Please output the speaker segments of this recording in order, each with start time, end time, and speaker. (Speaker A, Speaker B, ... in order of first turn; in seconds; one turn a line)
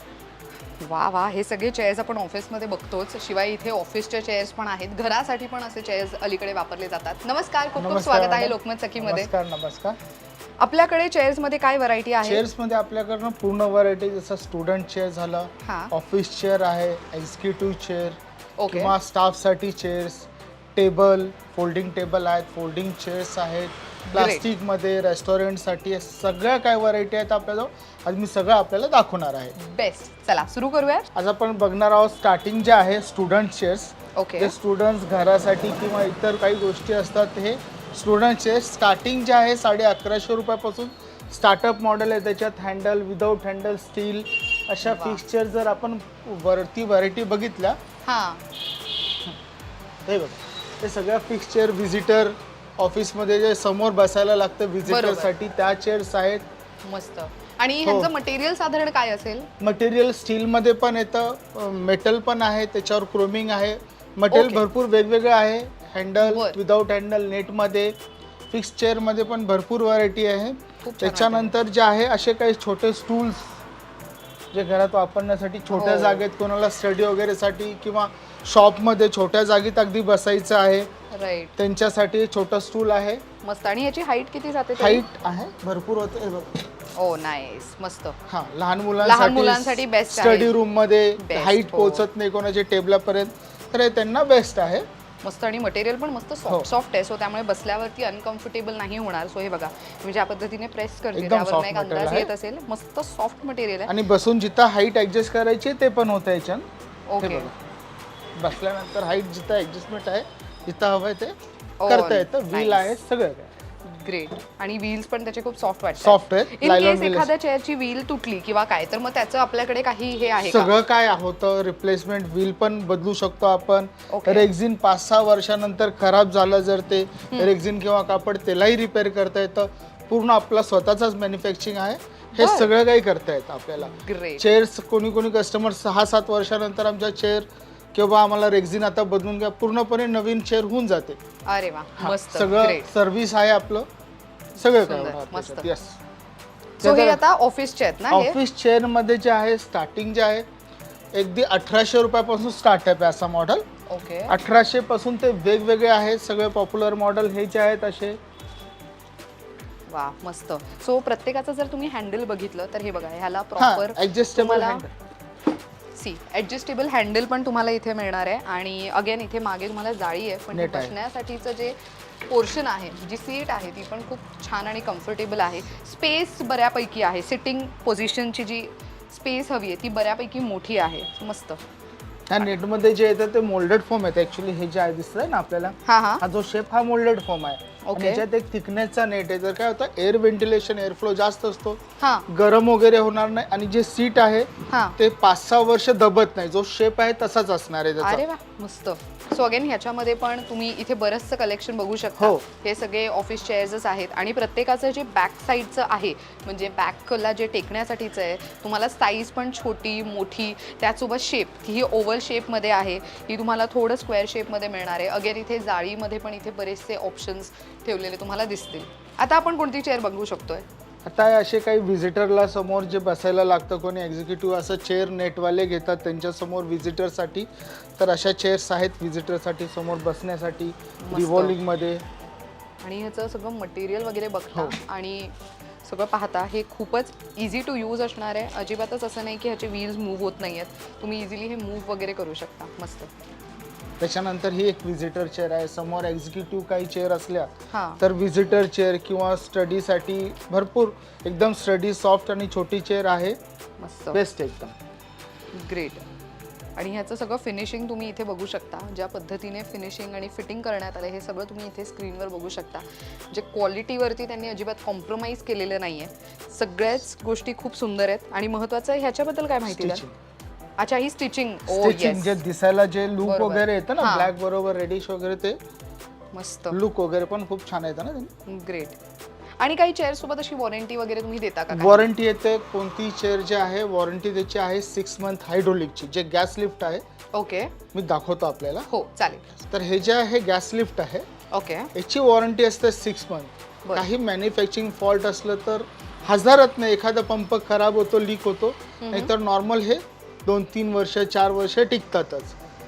Speaker A: 0.8-9.3
Speaker B: 7.8-10.0
Speaker A: 10.6-12.4
Speaker B: 12.2-29.5
Speaker A: 15.6-15.9
Speaker A: 18.6-18.9
Speaker A: 24.1-24.5
Speaker A: 29.6-31.1
Speaker B: 31.1-47.8
Speaker A: 34.1-34.5
Speaker A: 44.8-45.2
Speaker A: 48.0-48.4
Speaker B: 50.1-56.5
Speaker A: 54.8-55.3
Speaker A: 56.8-59.5
Speaker B: 57.8-58.1
Speaker B: 59.6-67.9
Speaker A: 64.3-64.6
Speaker A: 66.2-66.6
Speaker B: 68.5-73.6
Speaker A: 70.8-71.5
Speaker B: 74.5-80.9
Speaker A: 75.7-76.2
Speaker A: 81.1-81.5
Speaker B: 81.6-83.2
Speaker A: 83.4-85.0
Speaker B: 84.8-86.6
Speaker A: 87.0-88.2
Speaker B: 88.3-94.9
Speaker A: 89.0-90.6
Speaker A: 91.2-92.1
Speaker A: 95.2-103.9
Speaker B: 101.1-102.3
Speaker B: 103.9-106.7
Speaker A: 107.1-107.5
Speaker B: 107.2-107.5
Speaker B: 108.4-111.3
Speaker A: 111.8-112.9
Speaker B: 111.8-113.5
Speaker A: 113.8-120.7
Speaker B: 116.0-117.3
Speaker B: 120.4-141.2
Speaker A: 124.1-124.5
Speaker A: 132.3-132.7
Speaker A: 133.9-134.5
Speaker A: 141.4-142.9
Speaker B: 142.0-143.9
Speaker B: 144.6-146.0
Speaker A: 144.6-145.7
Speaker A: 146.8-148.4
Speaker B: 146.8-147.2
Speaker B: 148.1-150.4
Speaker B: 151.1-153.6
Speaker A: 153.9-154.3
Speaker B: 154.3-158.2
Speaker A: 159.9-164.8
Speaker B: 163.6-164.9
Speaker A: 165.9-171.8
Speaker B: 170.5-170.9
Speaker A: 172.3-181.6
Speaker B: 182.3-198.2
Speaker A: 185.8-186.2
Speaker A: 187.8-188.2
Speaker A: 192.0-192.3
Speaker A: 194.7-195.0
Speaker A: 198.0-220.6
Speaker B: 202.2-202.4
Speaker B: 221.0-232.0
Speaker A: 231.0-231.6
Speaker A: 232.8-243.1
Speaker B: 244.0-253.4
Speaker A: 247.7-248.0
Speaker A: 253.8-254.2
Speaker B: 254.1-254.8
Speaker A: 255.5-256.0
Speaker A: 256.8-270.0
Speaker B: 269.6-270.1
Speaker A: 270.8-272.4
Speaker B: 271.7-275.6
Speaker A: 273.2-274.3
Speaker A: 276.3-276.8
Speaker B: 276.7-278.3
Speaker A: 278.4-278.9
Speaker A: 279.6-282.1
Speaker B: 281.7-287.0
Speaker A: 287.3-287.7
Speaker B: 287.9-288.9
Speaker A: 288.9-289.5
Speaker B: 289.6-291.2
Speaker A: 291.5-291.9
Speaker B: 291.9-302.5
Speaker A: 293.8-294.1
Speaker A: 299.0-299.3